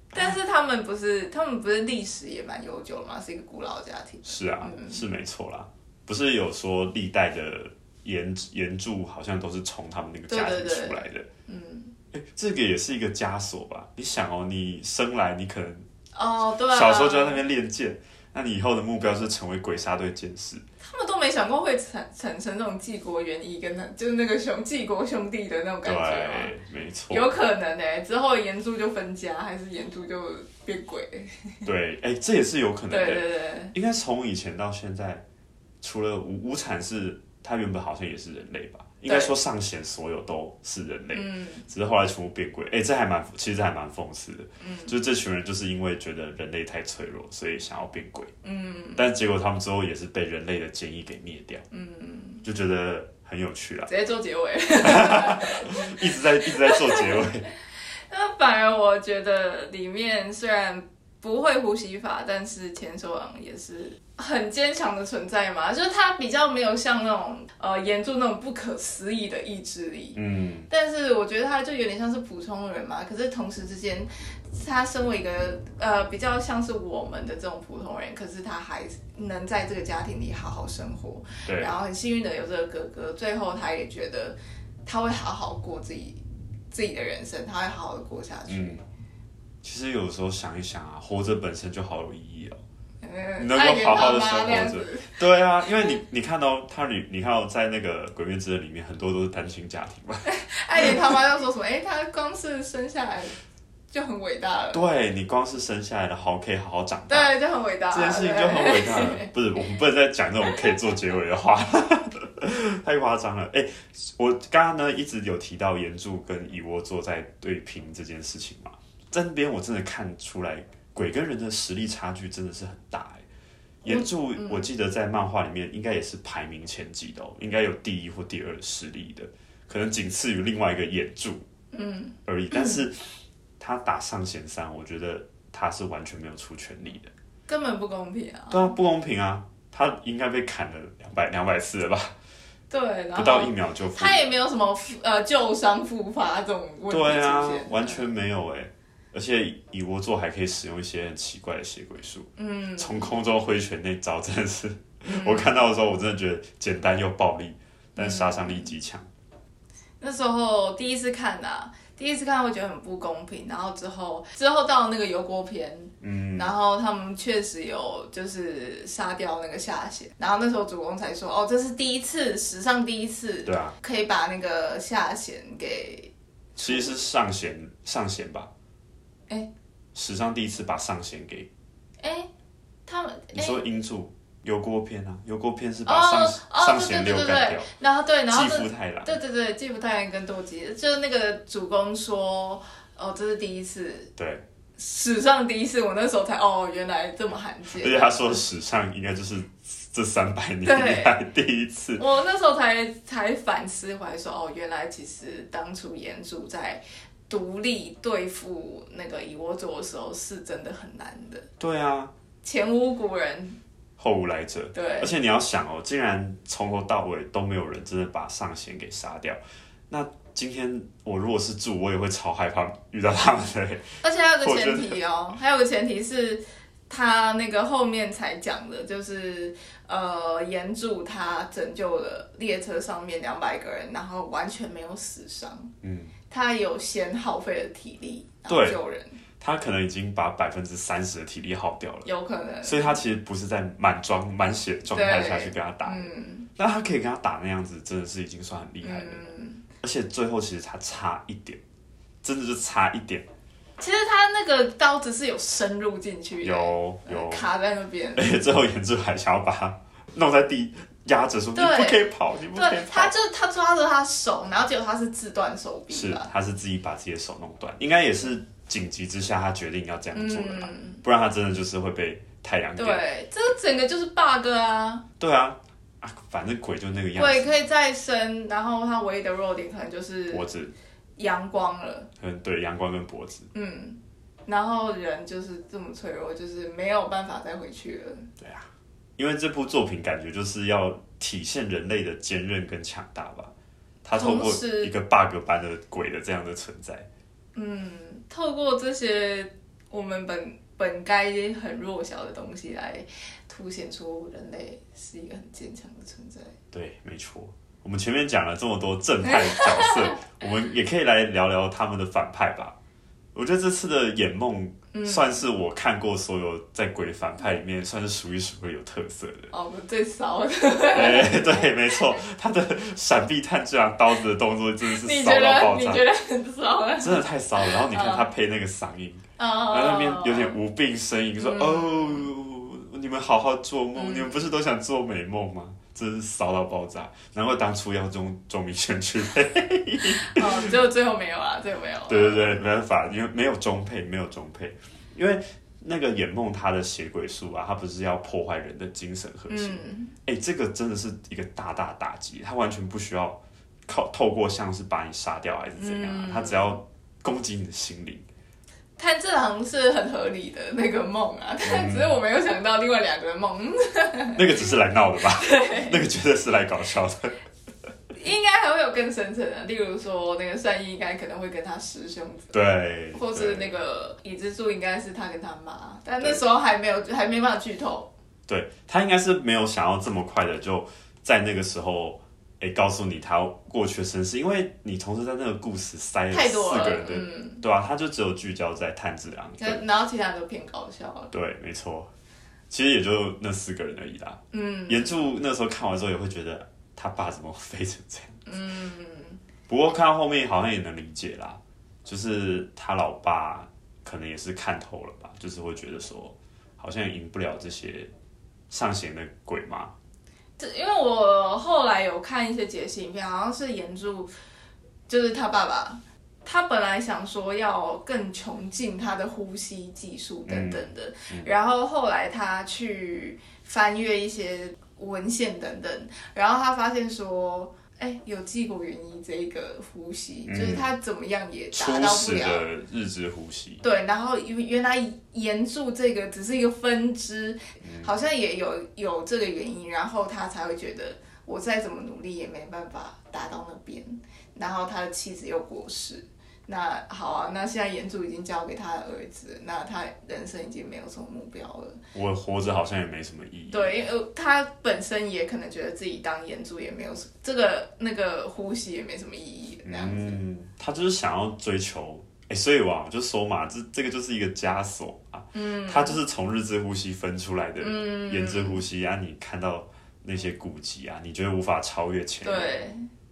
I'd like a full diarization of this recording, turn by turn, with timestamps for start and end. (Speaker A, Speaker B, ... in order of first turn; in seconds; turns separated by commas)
Speaker A: 0.1-5.0, Speaker B: 4.2-11.3, Speaker A: 10.3-11.9, Speaker B: 12.1-15.8, Speaker A: 16.1-17.4, Speaker B: 16.7-20.6, Speaker A: 20.8-26.5, Speaker B: 25.8-27.3, Speaker A: 27.1-31.6, Speaker B: 31.6-35.2, Speaker A: 32.9-33.7, Speaker B: 35.8-48.3, Speaker A: 39.0-39.3, Speaker A: 41.1-41.7, Speaker A: 44.6-44.9, Speaker A: 48.4-49.0, Speaker B: 49.0-51.6, Speaker A: 51.7-52.4, Speaker B: 52.4-53.9, Speaker A: 53.9-57.2, Speaker B: 54.8-57.5, Speaker A: 58.1-88.8, Speaker B: 70.1-70.7, Speaker B: 81.5-81.8, Speaker B: 88.5-88.8, Speaker B: 89.6-92.6, Speaker A: 93.0-95.2, Speaker B: 93.4-100.2, Speaker A: 100.2-103.3, Speaker B: 100.8-101.1, Speaker A: 103.9-104.8, Speaker B: 104.7-107.3, Speaker A: 107.1-109.3, Speaker B: 107.9-123.2, Speaker B: 123.8-131.4, Speaker A: 123.8-124.7, Speaker A: 131.7-132.8, Speaker B: 132.2-133.0, Speaker B: 133.6-137.1, Speaker A: 137.5-138.7, Speaker B: 138.5-142.1, Speaker A: 142.7-148.1, Speaker B: 143.1-144.2, Speaker B: 146.9-159.1, Speaker A: 152.4-153.1, Speaker A: 155.1-155.5, Speaker A: 157.9-158.7, Speaker A: 160.0-177.0, Speaker B: 166.0-166.5, Speaker B: 173.4-173.7, Speaker B: 176.6-178.5, Speaker B: 179.9-181.5, Speaker A: 182.0-182.3, Speaker A: 182.9-183.6, Speaker B: 183.3-187.7, Speaker A: 185.8-194.1, Speaker B: 188.3-189.2, Speaker B: 194.2-194.4, Speaker A: 194.8-198.4, Speaker B: 197.8-202.0, Speaker A: 200.6-201.1, Speaker A: 202.0-211.5, Speaker B: 211.6-212.1, Speaker A: 212.4-213.6, Speaker B: 214.0-223.9, Speaker A: 214.7-215.1, Speaker A: 224.0-235.7, Speaker B: 224.4-225.0, Speaker B: 235.8-236.1, Speaker A: 236.3-239.2, Speaker B: 238.5-238.8, Speaker B: 239.4-242.1, Speaker A: 242.0-243.0, Speaker B: 242.6-251.6, Speaker A: 244.9-246.5, Speaker A: 248.8-249.6, Speaker B: 252.2-253.2, Speaker A: 253.8-258.4, Speaker B: 256.4-257.4, Speaker B: 258.1-263.1, Speaker A: 261.5-266.3, Speaker B: 265.9-273.0, Speaker A: 270.1-271.0, Speaker A: 272.8-275.0, Speaker B: 275.2-277.6, Speaker A: 277.1-280.4, Speaker B: 280.3-280.7, Speaker A: 281.2-282.1, Speaker B: 282.2-283.5, Speaker A: 283.5-288.3, Speaker B: 288.4-293.5, Speaker B: 294.0-297.1, Speaker A: 294.1-294.9, Speaker A: 297.5-306.5, Speaker B: 306.7-312.7, Speaker A: 309.3-310.2, Speaker B: 313.3-319.5, Speaker A: 314.9-315.4, Speaker A: 319.5-322.2, Speaker B: 320.9-326.0, Speaker A: 324.9-328.2, Speaker B: 327.0-340.7, Speaker A: 329.4-330.6, Speaker A: 331.4-332.3, Speaker A: 333.9-334.4, Speaker A: 340.2-342.5, Speaker B: 342.1-358.2, Speaker A: 349.5-350.1, Speaker A: 355.8-356.8, Speaker A: 359.0-364.7, Speaker B: 361.6-362.1, Speaker B: 364.4-367.3, Speaker A: 365.3-366.0, Speaker A: 368.1-372.5, Speaker B: 372.5-373.7, Speaker A: 373.1-378.1, Speaker B: 378.5-389.8, Speaker A: 386.3-387.6, Speaker A: 389.6-391.3, Speaker B: 391.3-392.1, Speaker B: 392.7-398.4, Speaker A: 394.5-395.2, Speaker A: 398.4-399.4, Speaker B: 399.7-408.1, Speaker B: 408.7-409.9, Speaker A: 410.6-414.3, Speaker A: 415.1-432.6, Speaker B: 420.5-421.5, Speaker B: 430.5-430.9, Speaker B: 431.7-433.8, Speaker A: 433.8-452.0, Speaker B: 437.8-438.1, Speaker B: 452.1-453.9, Speaker A: 453.7-460.4, Speaker B: 459.8-472.7, Speaker A: 465.5-466.2, Speaker A: 467.8-468.8, Speaker A: 472.4-473.1